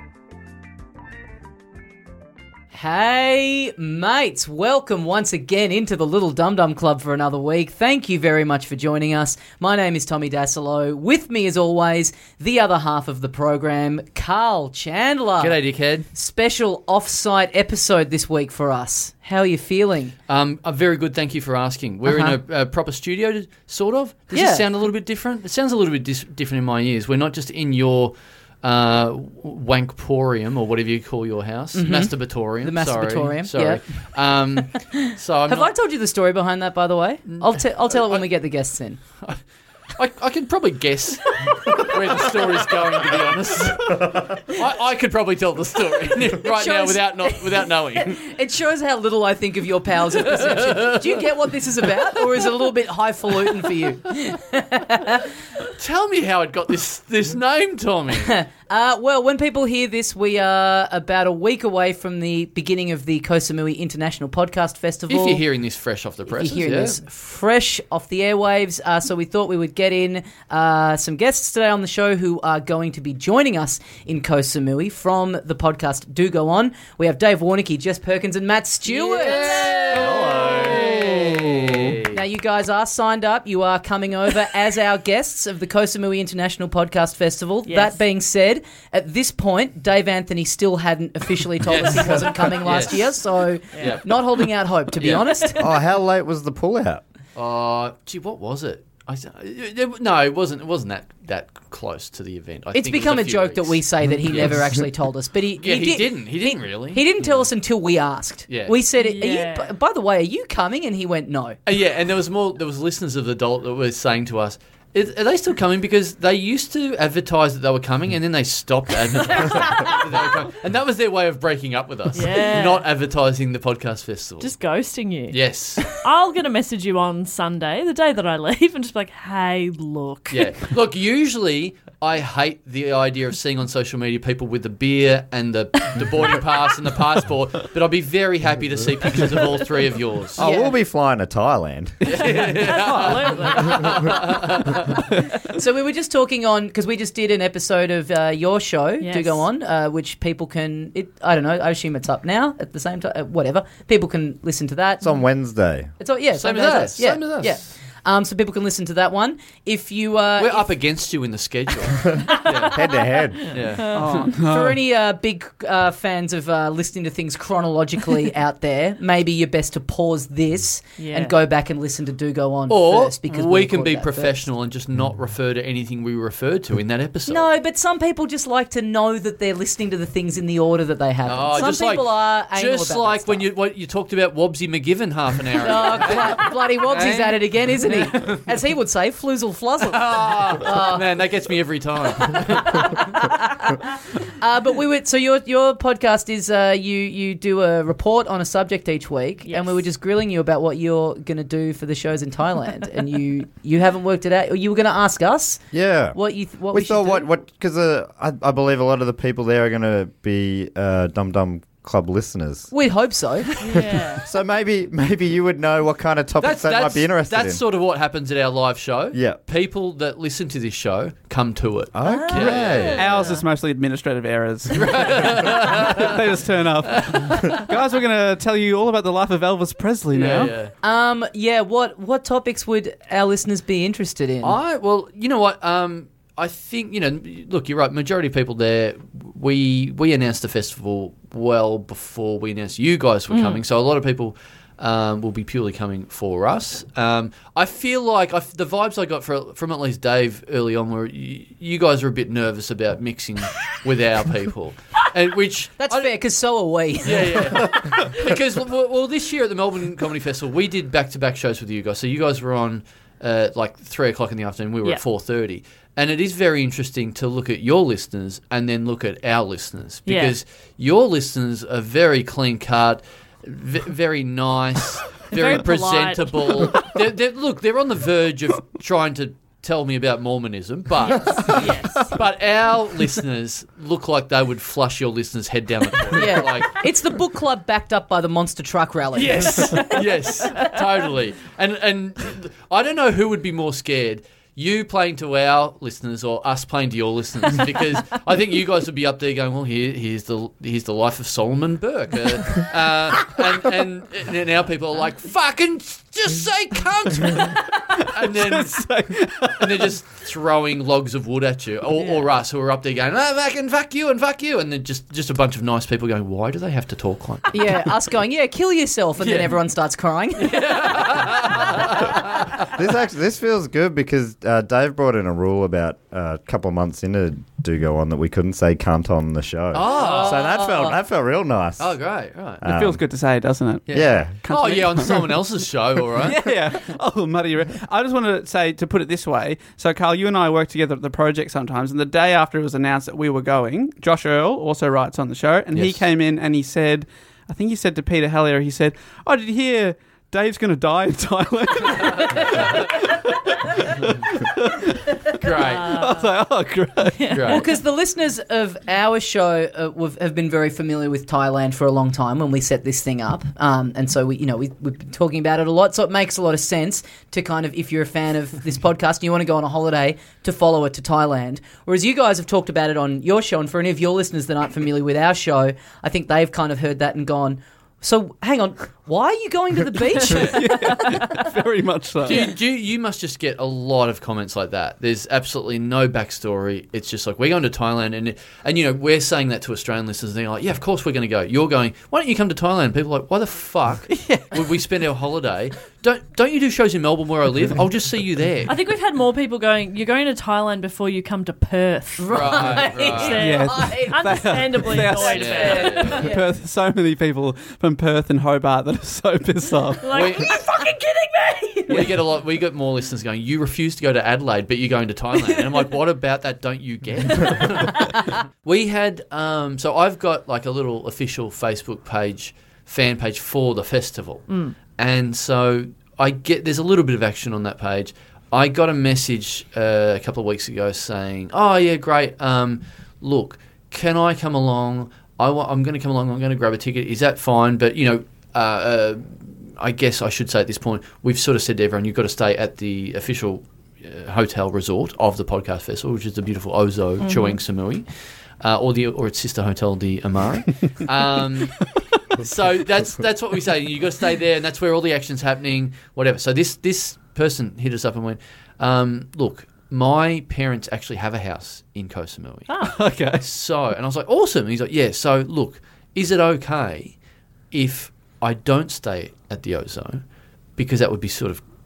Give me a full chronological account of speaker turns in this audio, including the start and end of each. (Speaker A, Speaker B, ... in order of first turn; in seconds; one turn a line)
Speaker A: 2.7-15.6
Speaker B: 15.4-16.1
Speaker A: 16.1-20.1
Speaker B: 20.3-35.7
Speaker A: 22.1-22.4
Speaker A: 24.3-24.6
Speaker A: 31.8-33.8
Speaker A: 35.0-39.0
Speaker B: 37.3-38.2
Speaker B: 40.0-48.2
Speaker C: 44.0-44.3
Speaker A: 46.4-55.3
Speaker B: 50.2-51.2
Speaker B: 55.8-58.4
Speaker A: 58.2-65.4
Speaker B: 65.1-67.0
Speaker A: 66.3-81.4
Speaker D: 78.9-80.4
Speaker B: 79.2-82.2
Speaker C: 79.9-81.8
Speaker A: 82.0-95.7
Speaker D: 87.7-88.0
Speaker B: 91.7-93.2
Speaker D: 93.8-94.0
Speaker B: 93.8-94.0
Speaker B: 95.0-95.3
Speaker C: 95.6-97.0
Speaker B: 97.3-104.6
Speaker A: 102.7-111.5
Speaker B: 105.6-107.3
Speaker B: 108.5-108.8
Speaker D: 109.0-109.7
Speaker B: 111.7-124.5
Speaker D: 119.3-120.0
Speaker D: 122.1-122.9
Speaker D: 124.4-130.5
Speaker B: 125.3-125.9
Speaker B: 130.3-140.4
Speaker C: 140.4-142.3
Speaker A: 140.4-140.8
Speaker B: 142.0-145.0
Speaker E: 142.1-143.5
Speaker D: 142.2-144.5
Speaker A: 145.5-155.1
Speaker D: 149.0-149.4
Speaker C: 155.0-155.9
Speaker A: 156.0-160.7
Speaker B: 156.4-157.6
Speaker B: 160.4-162.8
Speaker C: 162.1-163.6
Speaker D: 162.4-164.2
Speaker B: 163.5-164.3
Speaker E: 163.9-164.8
Speaker A: 164.3-174.4
Speaker D: 171.0-171.3
Speaker B: 172.7-177.5
Speaker A: 177.3-183.5
Speaker B: 181.2-188.4
Speaker A: 185.6-191.0
Speaker B: 189.9-193.1
Speaker A: 192.5-193.8
Speaker A: 194.4-205.6
Speaker D: 199.5-199.8
Speaker C: 205.7-206.2
Speaker A: 206.1-207.3
Speaker C: 206.7-212.7
Speaker A: 212.7-213.5
Speaker D: 213.6-214.3
Speaker C: 213.6-217.6
Speaker B: 216.4-223.1
Speaker C: 219.1-219.4
Speaker C: 221.9-223.1
Speaker D: 222.0-223.4
Speaker E: 223.0-230.5
Speaker B: 224.7-226.2
Speaker B: 227.1-227.4
Speaker B: 230.1-230.7
Speaker A: 230.8-234.6
Speaker B: 234.4-256.1
Speaker D: 243.3-243.6
Speaker A: 255.8-257.7
Speaker B: 257.0-286.8
Speaker D: 270.1-270.4
Speaker D: 275.3-276.9
Speaker D: 281.1-282.1
Speaker A: 286.1-289.9
Speaker B: 289.1-308.9
Speaker D: 289.6-290.8
Speaker E: 307.9-309.9
Speaker B: 309.4-317.6
Speaker D: 312.0-312.2
Speaker A: 317.5-321.2
Speaker B: 319.2-319.6
Speaker B: 320.4-322.7
Speaker C: 322.6-332.0
Speaker B: 329.7-330.5
Speaker A: 329.9-331.0
Speaker B: 331.8-332.6
Speaker C: 332.6-333.0
Speaker E: 332.6-335.4
Speaker B: 333.9-336.5
Speaker C: 333.9-334.4
Speaker E: 336.2-357.5
Speaker B: 345.7-346.0
Speaker B: 355.4-356.0
Speaker D: 355.4-356.3
Speaker D: 357.2-357.6
Speaker B: 357.3-357.7
Speaker A: 357.4-381.2
Speaker E: 380.3-382.5
Speaker B: 382.2-398.8
Speaker E: 394.1-394.6
Speaker D: 398.7-406.4
Speaker A: 402.2-404.5
Speaker B: 402.3-403.4
Speaker E: 403.3-410.1
Speaker B: 405.2-406.3
Speaker A: 405.6-406.4
Speaker D: 410.0-412.1
Speaker B: 410.1-410.6
Speaker E: 411.9-412.1
Speaker B: 411.9-448.1
Speaker D: 417.4-418.2
Speaker D: 424.5-424.8
Speaker D: 447.2-447.6
Speaker B: 448.6-467.2
Speaker D: 462.7-463.0
Speaker E: 462.8-463.4
Speaker B: 467.7-470.2
Speaker B: 470.8-471.6